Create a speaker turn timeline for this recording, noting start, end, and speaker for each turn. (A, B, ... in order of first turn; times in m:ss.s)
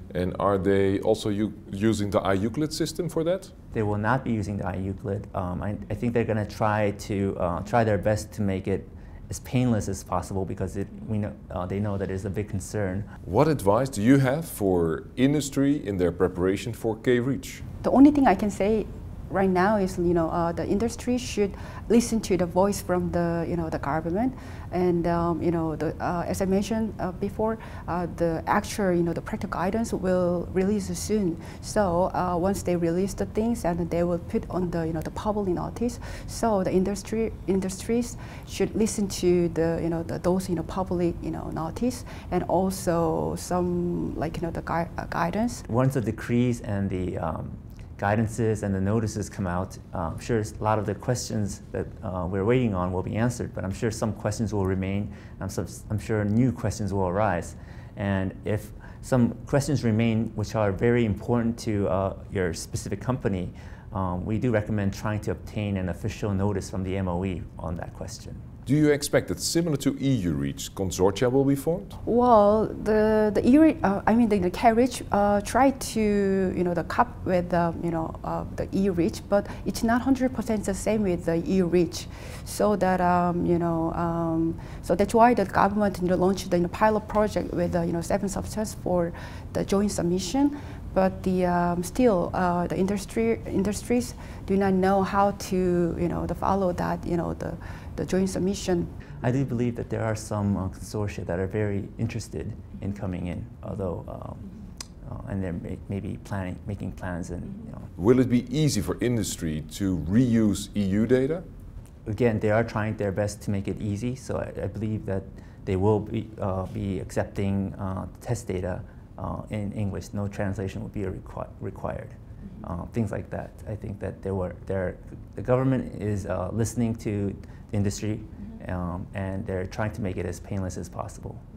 0:00.1-0:03.5 A
0:03.7-0:13.1 B
0:13.2-0:17.6 A
0:17.8-0:45.6 C
0:45.6-1:08.4 B
1:08.6-1:12.0 A
1:12.0-1:38.9 C
1:39.2-1:47.9 B
1:48.0-1:51.4 A
1:52.0-2:11.4 B